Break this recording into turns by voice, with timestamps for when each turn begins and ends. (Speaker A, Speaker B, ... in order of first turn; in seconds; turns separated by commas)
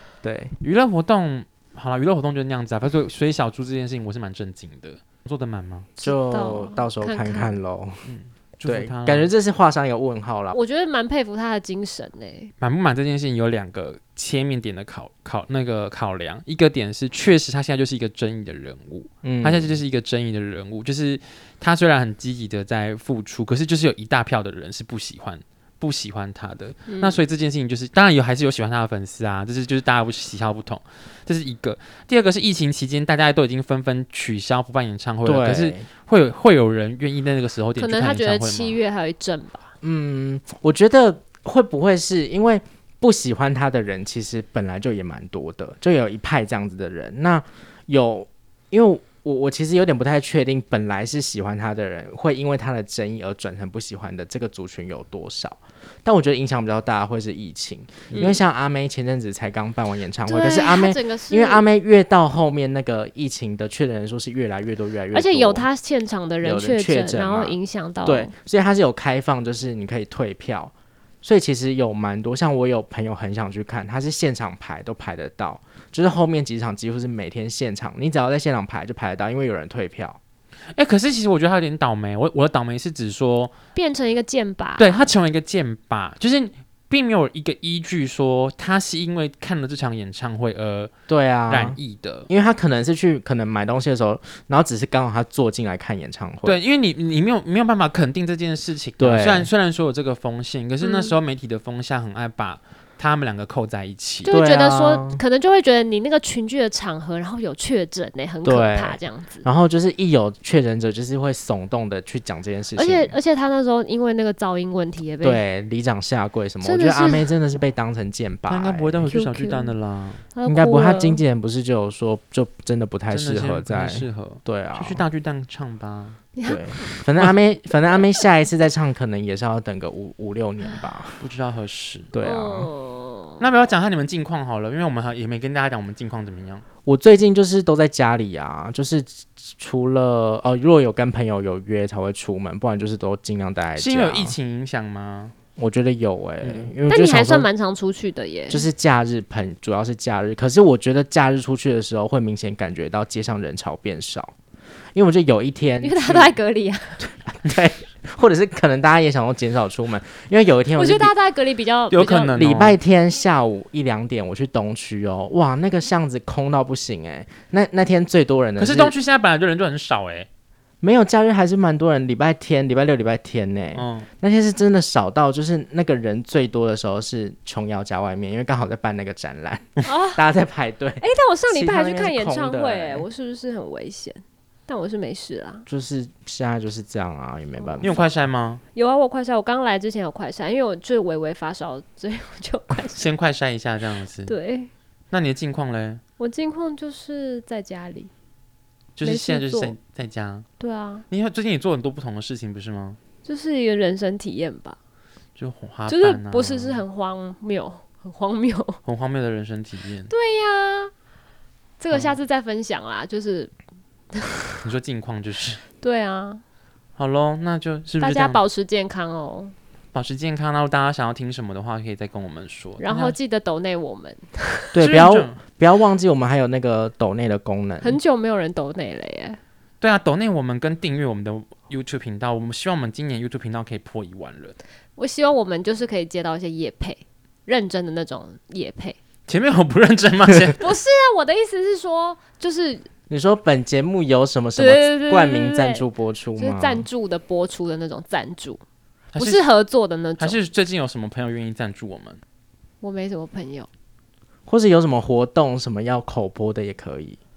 Speaker A: 0.2-0.6, Speaker B: 0.6-5.9, Speaker C: 6.0-7.5, Speaker A: 6.0-8.1, Speaker B: 8.1-9.3, Speaker A: 8.7-10.6, Speaker C: 10.5-12.5, Speaker B: 12.6-38.8, Speaker A: 19.2-19.8, Speaker C: 26.9-27.2, Speaker A: 35.2-35.9, Speaker C: 37.8-39.7, Speaker A: 39.8-65.7, Speaker C: 58.1-58.4, Speaker C: 60.3-61.6, Speaker C: 65.1-68.3, Speaker A: 66.4-80.2, Speaker B: 80.8-83.5, Speaker C: 83.8-85.0, Speaker B: 84.8-90.9, Speaker A: 91.1-91.8, Speaker B: 91.5-92.3, Speaker A: 92.3-96.6, Speaker B: 96.4-104.3, Speaker A: 99.0-99.5, Speaker C: 100.8-101.2, Speaker C: 104.2-109.5, Speaker A: 104.3-105.2, Speaker A: 108.4-113.2, Speaker C: 112.8-115.4, Speaker A: 115.2-119.1, Speaker C: 116.6-117.3, Speaker B: 118.5-120.3, Speaker C: 119.1-119.7, Speaker C: 120.3-121.2, Speaker A: 120.5-125.0, Speaker B: 123.1-126.2, Speaker C: 126.3-127.0, Speaker A: 126.5-131.2, Speaker B: 131.2-132.1, Speaker A: 132.1-132.7, Speaker C: 132.2-133.4, Speaker B: 133.4-136.7, Speaker A: 136.8-144.3, Speaker B: 143.8-145.3, Speaker A: 145.6-147.5, Speaker B: 146.4-146.7, Speaker C: 146.9-148.7, Speaker A: 148.5-154.3, Speaker A: 154.9-156.3, Speaker C: 155.8-157.0, Speaker A: 157.0-161.1, Speaker C: 160.8-162.4, Speaker B: 161.9-162.8, Speaker A: 162.3-168.9, Speaker B: 168.6-170.3, Speaker A: 170.8-183.1, Speaker B: 173.8-174.1, Speaker C: 179.8-180.2, Speaker C: 181.0-185.7, Speaker A: 185.7-187.9, Speaker C: 187.6-188.1, Speaker B: 187.8-188.6, Speaker C: 188.8-193.1, Speaker B: 192.9-194.3, Speaker C: 194.3-194.7, Speaker B: 195.1-196.0, Speaker C: 196.2-198.1, Speaker B: 199.0-200.5, Speaker C: 199.0-199.8, Speaker C: 200.6-201.1, Speaker B: 201.1-203.0, Speaker C: 203.2-204.8, Speaker B: 205.4-206.8, Speaker C: 205.9-208.8, Speaker B: 208.9-210.1, Speaker C: 210.1-210.9, Speaker C: 211.8-213.5, Speaker C: 214.1-214.4, Speaker B: 214.6-215.6, Speaker C: 215.8-216.4, Speaker B: 217.0-218.4, Speaker C: 218.0-219.5, Speaker B: 219.9-223.2, Speaker C: 222.8-224.7, Speaker A: 224.7-228.0, Speaker B: 224.8-225.4, Speaker C: 227.8-229.4, Speaker B: 229.8-234.6, Speaker C: 235.0-239.0, Speaker B: 239.3-240.6, Speaker C: 240.6-242.9, Speaker A: 243.1-246.9, Speaker C: 244.6-245.8, Speaker C: 246.4-248.6, Speaker B: 249.1-249.4, Speaker C: 249.2-250.4, Speaker B: 250.2-252.2, Speaker C: 252.8-253.7, Speaker A: 254.5-257.2